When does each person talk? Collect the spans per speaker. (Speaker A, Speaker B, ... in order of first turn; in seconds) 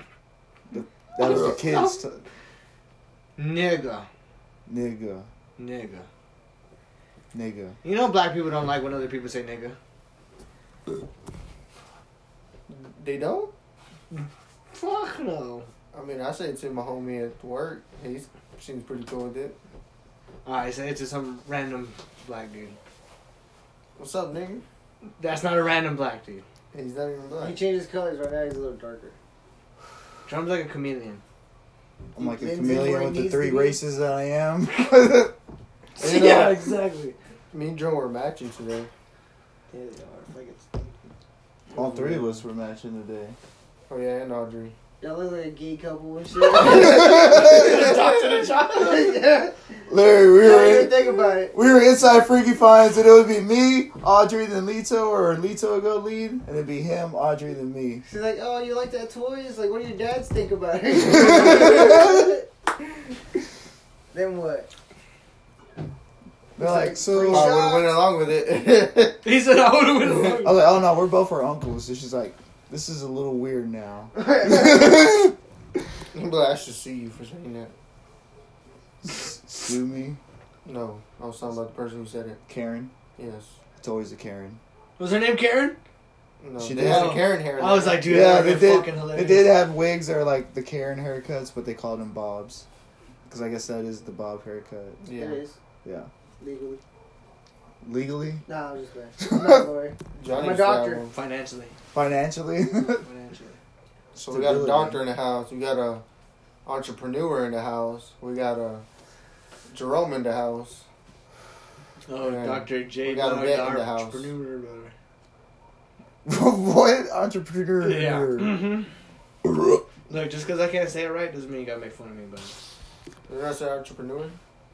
Speaker A: 0.7-2.2, 4.7-5.3, 7.3-7.8, 32.1-35.3, 41.7-43.4, 49.9-58.0, 61.1-62.3, 66.6-67.6, 70.4-75.3, 79.0-80.2, 82.5-82.9, 83.8-84.6, 86.6-87.3, 88.0-92.7, 93.3-95.0, 95.8-96.1, 97.8-98.4, 99.2-99.6, 101.9-103.0, 104.2-105.0, 116.2-118.7
Speaker B: 1.3-1.6, 3.4-4.1, 5.6-6.1, 7.8-9.8, 14.1-15.7, 20.4-22.8, 25.2-26.4, 30.3-31.2, 36.0-37.2, 39.7-40.9, 46.6-49.1, 69.2-70.6, 85.0-85.8, 86.8-89.5, 101.1-101.7, 103.0-103.6, 112.1-114.9, 117.8-118.9, 120.1-122.5
Speaker C: 12.7-13.5, 15.9-19.6, 24.0-24.6, 26.7-27.6, 36.0-36.8, 37.5-38.9, 41.8-42.3, 43.9-44.8, 67.3-69.3, 70.1-70.4, 76.1-77.7, 80.7-82.4, 83.2-83.6, 86.4-88.1, 95.0-95.4, 100.2-101.2, 104.2-106.0, 106.7-108.9, 109.7-110.8, 112.2-114.3, 123.3-124.4
Speaker D: 27.4-29.2, 32.2-33.8, 45.0-47.9, 48.7-49.5, 50.4-51.5, 58.0-62.5, 64.1-64.7, 66.6-68.0, 74.2-75.1, 95.1-95.6, 96.4-96.8, 98.5-101.0